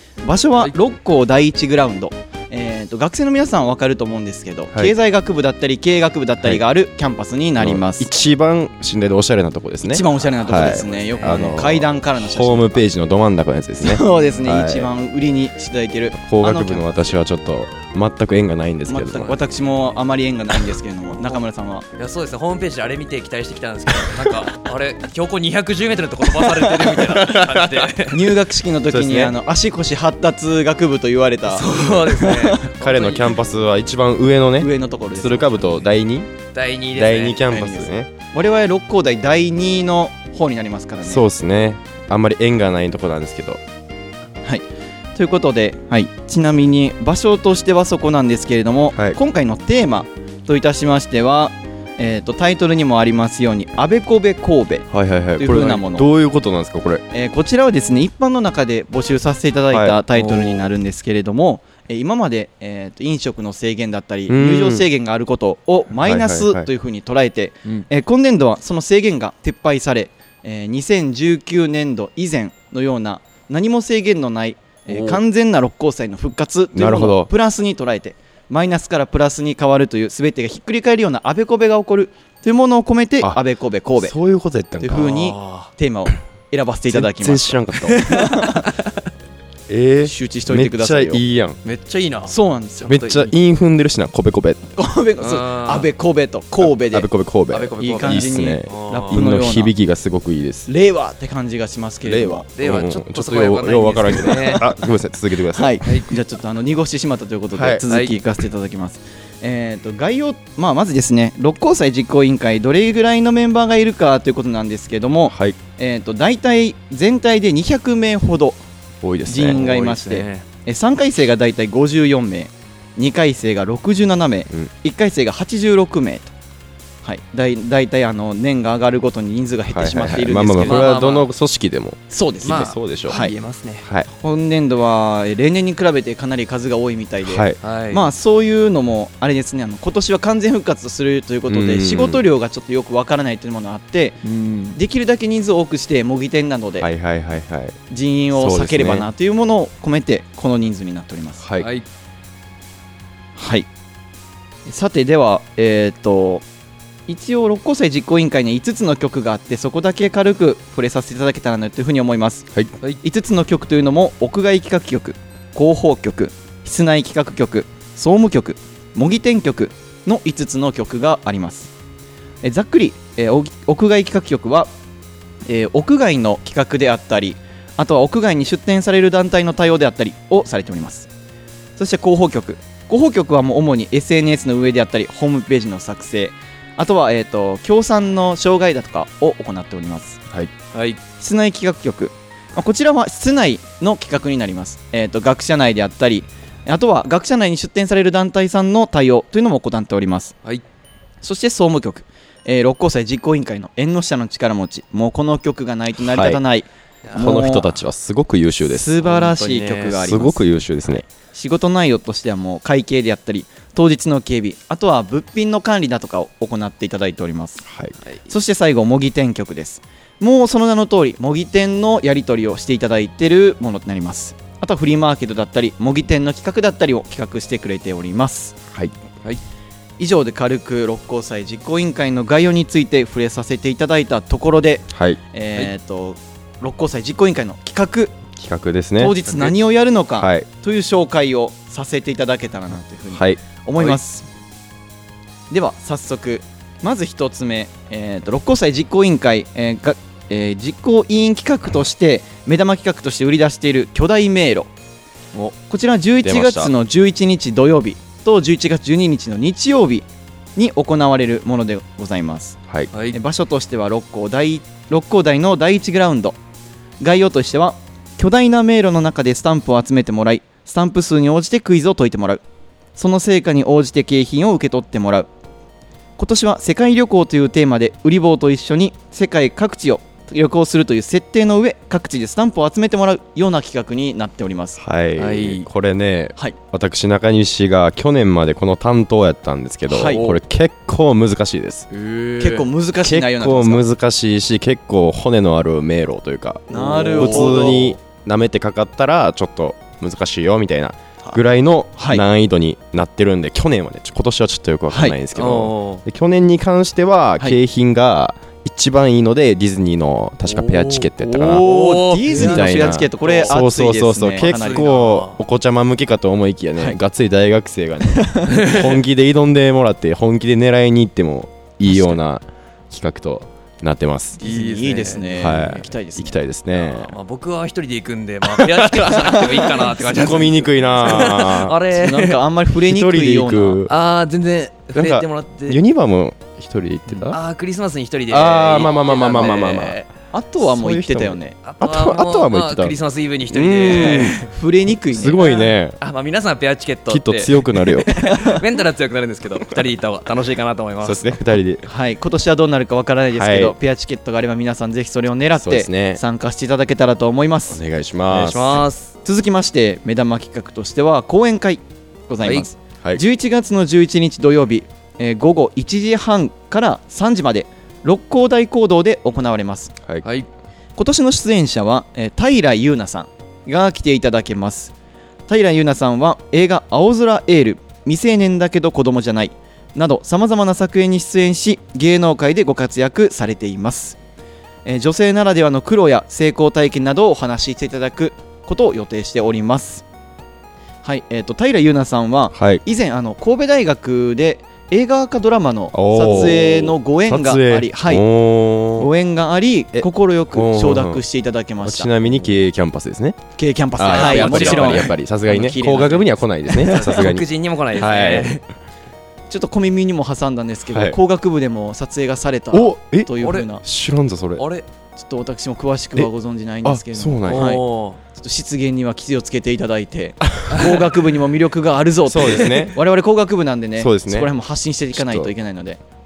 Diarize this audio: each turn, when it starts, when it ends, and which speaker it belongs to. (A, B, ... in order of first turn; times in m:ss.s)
0:00.2-0:08.1 A
0:07.6-0:14.9 B
0:09.9-0:12.9 A
0:10.5-0:11.6 C
0:13.8-0:17.1 A
0:16.2-0:19.3 B
0:18.9-0:21.9 A
0:22.0-0:28.3 C
0:27.2-0:27.9 B
0:28.1-0:32.6 A
0:28.9-0:29.3 B
0:31.5-0:33.3 C
0:32.7-0:36.3 B
0:34.6-0:35.8 A
0:36.6-0:37.4 C
0:36.9-0:38.1 B
0:37.5-0:41.2 A
0:41.0-0:43.6 B
0:44.4-0:56.1 A
0:54.9-0:57.0 B
0:57.1-1:24.1 A
0:59.7-1:00.0 B
1:00.2-1:00.6 C
1:04.3-1:04.9 B
1:06.0-1:06.7 B
1:14.9-1:15.2 C
1:16.7-1:17.3 B
1:24.0-1:25.1 B
1:24.8-1:28.6 A
1:25.0-1:25.7 C
1:26.9-1:28.0 B
1:27.9-1:28.8 C
1:29.7-1:31.6 B
1:30.0-1:31.2 A
1:31.6-1:33.3 C
1:32.3-1:33.3 A
1:32.9-1:34.6 B
1:34.8-1:37.1 A
1:35.2-1:35.9 C
1:36.6-1:40.7 B
1:37.5-1:39.2 C
1:37.8-1:39.7 A
1:40.7-1:42.5 A
1:42.0-1:45.8 B
1:42.5-1:44.6 C
1:45.5-1:58.6 A
1:47.5-1:47.8 B
1:47.9-1:48.2 C
1:55.3-1:55.6 B
1:59.0-1:59.9 B
1:59.3-2:06.3 A
1:59.4-2:00.4 C
2:07.0-2:10.9 A
2:09.7-2:13.2 B
2:10.6-2:11.3 C
2:12.1-2:13.4 A
2:12.4-2:13.9 C
2:13.8-2:14.1 B
2:14.1-2:24.2 A
2:17.2-2:17.6 B
2:17.6-2:18.0 C
2:21.5-2:22.2 B
2:24.2-2:24.8 C
2:24.8-2:26.9 A
2:26.8-2:27.8 B
2:27.9-2:31.4 A
2:28.3-2:29.1 B
2:31.4-2:31.7 B
2:31.6-2:31.9 C
2:33.4-2:33.7 A
2:34.7-2:36.4 A
2:37.1-2:42.5 A
2:43.0-2:51.7 A
2:52.4-2:54.7 A
2:55.5-3:01.1 A
3:01.8-3:10.2 A
3:10.7-3:11.0 C
3:11.2-3:20.4 A
3:21.2-3:27.7 A
3:26.0-3:26.4 B
3:27.1-3:27.3 C
3:27.2-3:29.0 B
3:28.7-3:30.4 A
3:29.0-3:30.0 C
3:29.9-3:31.0 B
3:31.3-3:37.6 A
3:37.7-3:38.0 B
3:38.3-3:48.6 A
3:50.0-3:58.2 A
3:54.9-3:55.2 B
3:58.4-3:59.2 B
3:59.0-4:04.3 A
4:00.2-4:00.5 B
4:03.1-4:03.4 B
4:05.5-4:14.7 A
4:15.5-4:22.6 A
4:16.2-4:16.7 B
4:22.9-4:23.2 C
4:23.1-4:26.4 A
4:27.0-4:32.4 A
4:33.0-4:35.3 A
4:36.2-4:44.8 A
4:44.8-4:51.9 B
4:45.2-4:45.7 C
4:49.9-4:50.4 A
4:51.9-4:52.7 C
4:52.4-4:53.8 A
4:53.0-5:11.7 B
4:56.7-4:57.9 A
4:56.7-4:58.0 C
5:02.0-5:02.2 A
5:04.9-5:05.2 A
5:05.4-5:06.0 C
5:10.5-5:13.5 C
5:11.4-5:14.9 A
5:12.3-5:24.4 B
5:14.4-5:15.4 C
5:18.1-5:18.6 A
5:18.5-5:19.0 C
5:24.4-5:25.8 C
5:24.4-5:26.4 A
5:25.4-5:27.1 B
5:26.7-5:32.4 C
5:28.5-5:31.8 B
5:31.9-5:33.8 A
5:32.8-5:33.9 B
5:33.9-5:35.8 C
5:35.0-5:37.4 B
5:37.3-5:40.1 C
5:38.3-5:40.0 B
5:40.3-5:41.6 A
5:40.6-5:43.0 B
5:41.6-5:44.5 C
5:43.5-5:44.4 B
5:44.2-5:45.6 A
5:45.1-5:46.0 B
5:45.4-5:51.4 C
5:47.1-5:48.2 B
5:51.0-5:51.9 B
5:51.9-5:57.8 A
5:53.3-5:53.8 B
5:55.6-5:56.2 B
5:57.7-5:58.8 B
5:58.3-5:59.2 C
5:59.2-6:09.9 A
6:11.0-6:14.9 A
6:15.5-6:24.2 A
6:24.8-6:30.0 A
6:31.0-6:38.2 A
6:32.5-6:32.8 B
6:35.9-6:39.1 B
6:39.0-6:42.4 A
6:39.9-6:41.2 B
6:41.8-6:43.4 B
6:43.6-6:46.3 A
6:44.0-6:48.5 B
6:44.0-6:45.1 C
6:46.8-6:48.6 C
6:49.5-6:53.8 A
6:50.9-6:51.2 B
6:52.7-6:53.3 B
6:53.4-6:53.7 C
6:53.8-6:54.6 B
6:54.6-6:54.9 C
6:55.2-7:06.0 A
6:56.8-6:57.8 B
6:57.4-6:58.2 C
7:02.3-7:03.0 B
7:04.0-7:04.5 B
7:05.1-7:05.5 B